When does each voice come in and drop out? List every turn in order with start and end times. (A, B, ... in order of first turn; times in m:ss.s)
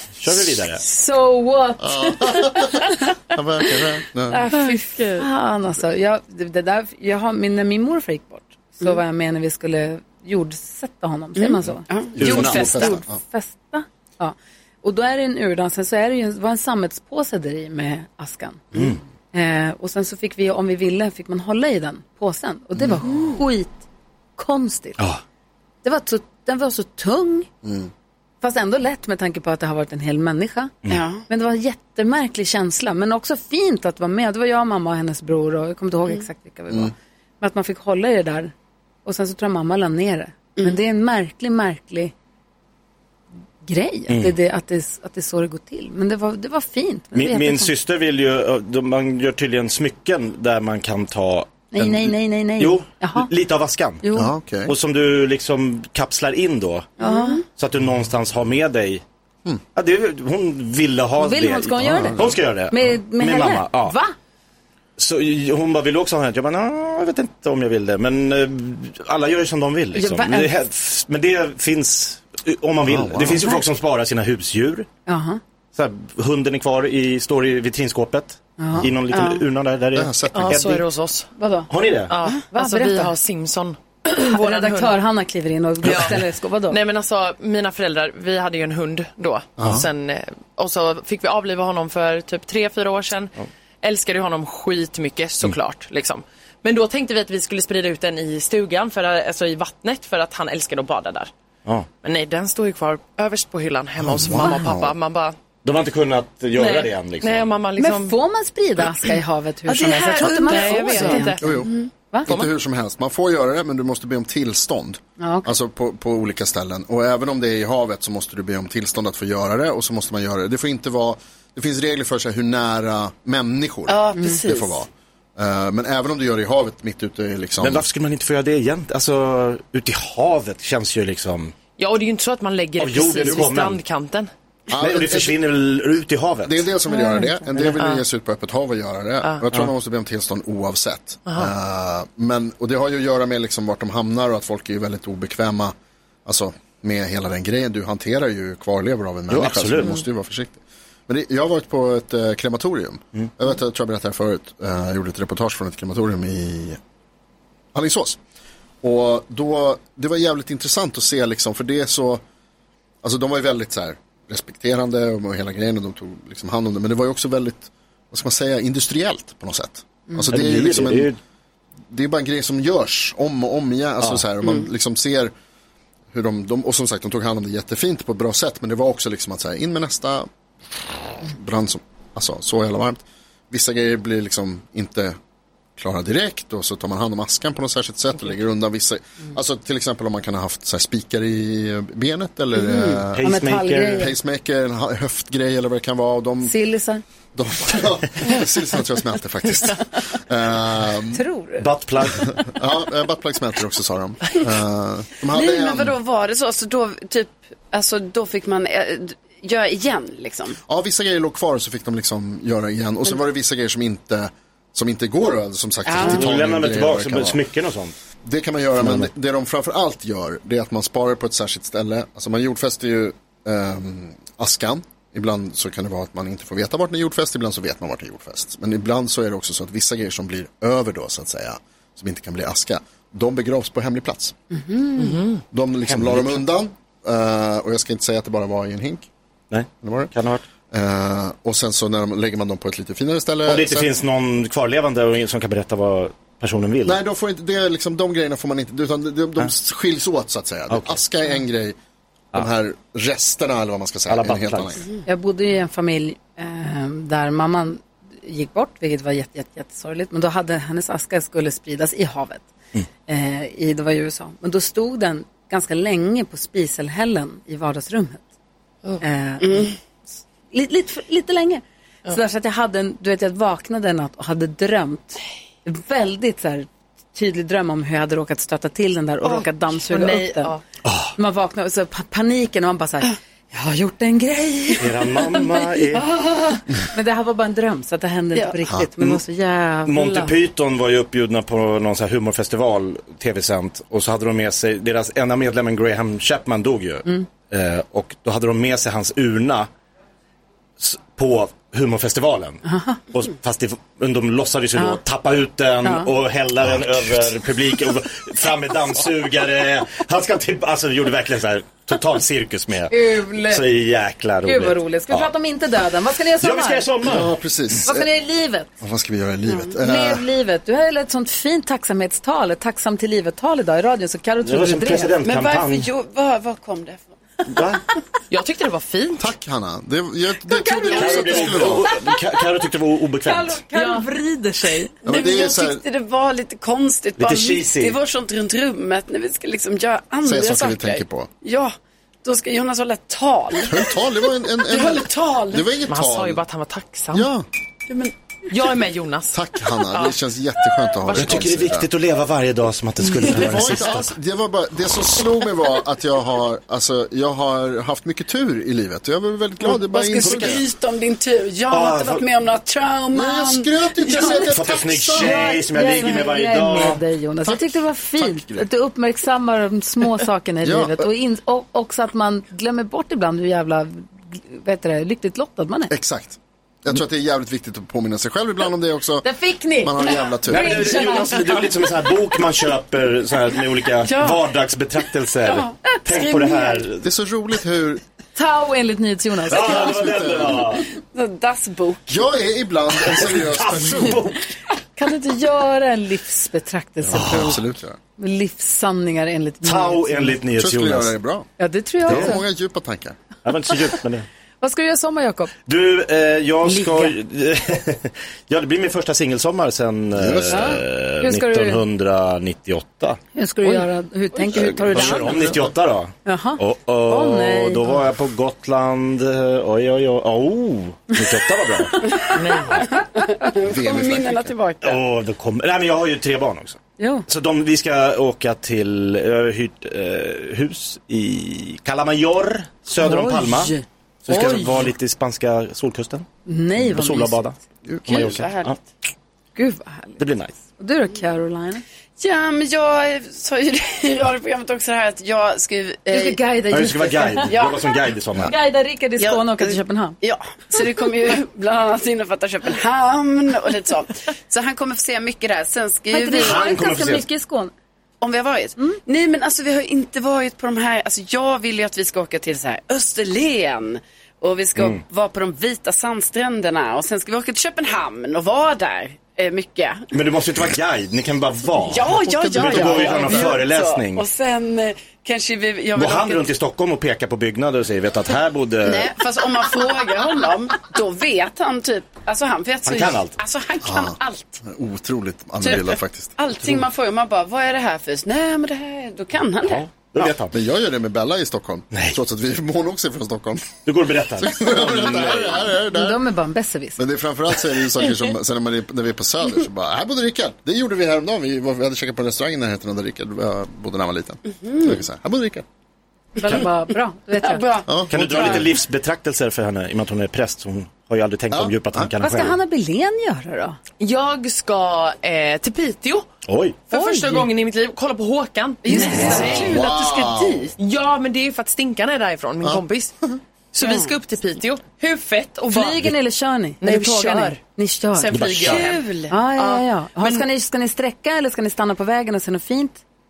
0:00.2-0:00.8 A
0:00.7-0:03.2 B
0:01.8-0:04.5 C
0:04.3-0:05.3 D
0:04.5-0:18.7 B
0:11.4-0:13.0 D
0:12.2-0:13.2 C
0:12.2-0:12.8 A
0:19.3-0:23.7 B
0:23.1-0:23.3 D
0:24.4-0:25.0 B
0:25.8-0:27.5 B
0:27.6-0:27.9 C
0:28.4-0:30.8 B
0:30.9-0:31.2 D
0:31.3-0:38.5 B
0:39.0-0:42.1 B
0:43.6-0:47.7 B
0:44.1-0:44.4 A
0:47.1-0:54.0 A
0:51.7-0:53.3 B
0:54.0-0:54.3 B
0:54.2-0:54.8 C
0:54.7-0:56.9 A
0:57.0-0:57.4 B
0:57.0-0:57.4 D
0:57.6-0:59.0 A
0:59.8-1:04.0 A
1:01.2-1:04.1 B
1:01.8-1:02.4 C
1:05.0-1:14.9 A
1:09.9-1:10.5 B
1:12.9-1:13.5 C
1:15.1-1:15.4 B
1:15.8-1:20.8 A
1:18.6-1:18.9 B
1:19.1-1:19.4 D
1:20.0-1:20.8 C
1:20.3-1:21.3 E
1:21.4-1:21.7 B
1:21.7-1:22.1 A
1:22.1-1:25.0 E
1:22.5-1:23.1 B
1:24.1-1:26.8 B
1:25.8-1:41.3 E
1:29.6-1:29.9 C
1:42.0-1:45.4 E
1:44.0-1:44.9 C
1:45.6-1:47.5 A
1:47.2-1:48.2 E
1:47.8-1:51.4 B
1:49.7-1:51.5 E
1:50.2-1:51.9 D
1:51.4-1:51.7 C
1:52.2-2:07.9 C
1:55.2-1:55.5 B
2:03.9-2:04.8 D
2:07.6-2:11.6 A
2:11.8-2:14.3 E
2:12.8-2:13.8 A
2:14.7-2:15.4 C
2:14.8-2:16.6 A
2:16.4-2:25.7 C
2:17.6-2:18.0 E
2:21.3-2:21.5 E
2:26.2-2:36.8 C
2:29.3-2:30.0 A
2:37.7-2:38.2 C
2:38.8-2:42.2 C
2:43.0-2:51.1 C
2:50.3-2:51.2 A
2:51.9-2:55.3 C
2:56.1-3:00.3 C
3:01.2-3:05.2 C
3:05.8-3:13.3 C
3:13.1-3:14.1 A
3:13.2-3:14.1 B
3:14.0-3:16.5 C
3:16.4-3:17.0 B
3:17.4-3:21.2 C
3:21.1-3:21.7 B
3:21.6-3:22.4 A
3:22.4-3:26.0 C
3:25.3-3:30.6 D
3:30.7-3:37.4 C
3:35.8-3:36.2 D
3:36.0-3:38.0 A
3:38.2-3:54.4 C
3:38.8-3:39.1 A
3:54.5-3:55.2 B
3:55.0-3:55.4 E
3:55.5-3:59.1 C
3:55.9-3:56.4 A
3:59.5-4:00.5 A
3:59.8-4:00.1 C
4:00.7-4:03.9 C
4:03.5-4:07.0 A
4:06.8-4:11.8 C
4:10.7-4:11.0 A
4:12.3-4:14.8 C
4:14.1-4:14.8 A
4:15.1-4:22.5 B
4:23.1-4:28.2 B
4:29.0-4:29.7 B
4:29.4-4:29.7 D
4:30.5-4:40.6 B
4:39.2-4:40.6 E
4:40.8-4:41.1 A
4:41.2-4:50.4 B
4:44.8-4:46.1 A
4:49.9-4:59.7 A
5:00.8-5:15.3 A
5:02.6-5:03.0 B
5:05.8-5:06.1 B
5:12.9-5:13.7 B
5:14.4-5:16.9 B
5:16.4-5:17.3 A
5:17.0-5:18.1 C
5:17.8-5:18.7 B
5:18.8-5:20.3 C
5:19.5-5:19.7 D
5:19.8-5:25.1 B
5:24.4-5:25.9 A
5:25.2-5:27.1 D
5:27.5-5:27.8 A
5:28.3-5:29.3 E
5:29.2-5:31.9 C
5:30.7-5:31.7 B
5:30.9-5:33.6 A
5:33.2-5:35.0 B
5:35.0-5:35.8 C
5:35.0-5:45.7 D
5:37.2-5:38.0 A
5:40.2-5:41.3 C
5:43.6-5:46.4 C
5:45.9-5:47.3 E
5:47.1-5:47.5 C
5:47.9-5:48.1 D
5:48.5-5:50.2 E
5:49.3-5:51.9 C
5:51.1-5:51.4 E
5:51.1-5:54.1 A
5:53.3-6:00.6 C
5:59.6-6:04.5 D
6:00.2-6:00.6 A
6:01.7-6:02.2 A
6:03.1-6:05.4 C
6:04.5-6:07.0 A
6:05.2-6:15.9 B
6:07.4-6:08.7 C
6:10.6-6:11.1 C
6:15.9-6:19.3 C
6:19.2-6:21.6 B
6:19.8-6:21.3 C
6:20.5-6:27.1 A
6:24.0-6:24.6 D
6:25.4-6:26.9 D
6:27.0-6:28.0 C
6:28.4-6:29.9 B
6:29.5-6:30.9 A
6:29.5-6:30.7 C
6:31.0-6:32.2 D
6:32.1-6:34.3 C
6:33.1-6:34.4 A
6:35.0-6:37.6 B
6:37.1-6:38.0 C
6:37.1-6:37.5 A
6:38.2-6:40.4 B
6:39.6-6:41.1 A
6:40.6-6:41.5 C
6:41.6-6:42.4 B
6:42.1-6:43.2 C
6:43.4-6:44.3 A
6:44.6-6:45.5 B
6:45.7-6:53.2 A
6:46.6-6:47.2 B
6:50.2-6:50.8 C
6:50.5-6:51.8 B
6:53.4-6:55.5 B
6:54.5-7:02.0 A
6:54.6-6:55.7 C
6:56.2-6:58.0 B
7:02.2-7:05.0 D
7:02.4-7:02.8 E
7:03.6-7:04.5 C
7:04.8-7:13.8 A
7:07.0-7:07.3 B
7:13.0-7:14.9 B
7:14.3-7:16.3 A
7:16.5-7:17.4 B
7:16.8-7:18.8 A
7:17.8-7:18.4 C
7:18.1-7:18.8 D
7:19.6-7:21.8 B
7:20.2-7:20.5 A
7:22.2-7:26.4 D
7:26.1-7:27.5 B
7:26.7-7:28.5 A
7:27.5-7:28.1 D
7:28.4-7:30.2 B
7:29.2-7:36.6 D
7:36.1-7:37.7 B
7:36.4-7:37.2 A
7:38.2-7:50.1 D
7:44.8-7:45.0 A
7:50.1-7:54.2 A
7:51.8-7:56.5 D
7:52.1-7:53.6 C
7:56.0-7:59.1 A
7:58.8-8:04.6 D
8:02.8-8:03.4 A
8:03.8-8:06.4 C
8:05.6-8:09.9 D
8:09.6-8:10.5 A
8:10.5-8:13.8 C
8:11.9-8:12.2 A
8:13.8-8:15.7 A
8:14.4-8:16.2 C
8:15.9-8:17.0 B
8:17.0-8:25.6 C
8:24.6-8:25.0 D
8:26.4-8:27.7 B
8:27.4-8:28.8 D
8:27.9-8:28.7 C
8:28.1-8:32.6 A
8:31.5-8:32.1 C
8:32.2-8:33.8 B
8:34.0-8:36.3 E
8:36.5-8:36.8 A
8:36.9-8:39.8 E
8:36.9-8:37.5 B
8:38.8-8:40.7 D
8:38.9-8:39.7 B
8:39.3-8:40.8 C
8:40.8-8:43.1 E
8:42.6-8:43.4 C
8:43.7-8:46.1 E
8:43.8-8:44.1 D
8:45.7-8:48.3 B
8:46.8-8:47.6 E
8:48.2-8:50.5 E
8:48.3-8:48.9 A
8:48.6-8:49.3 D
8:49.3-8:53.0 B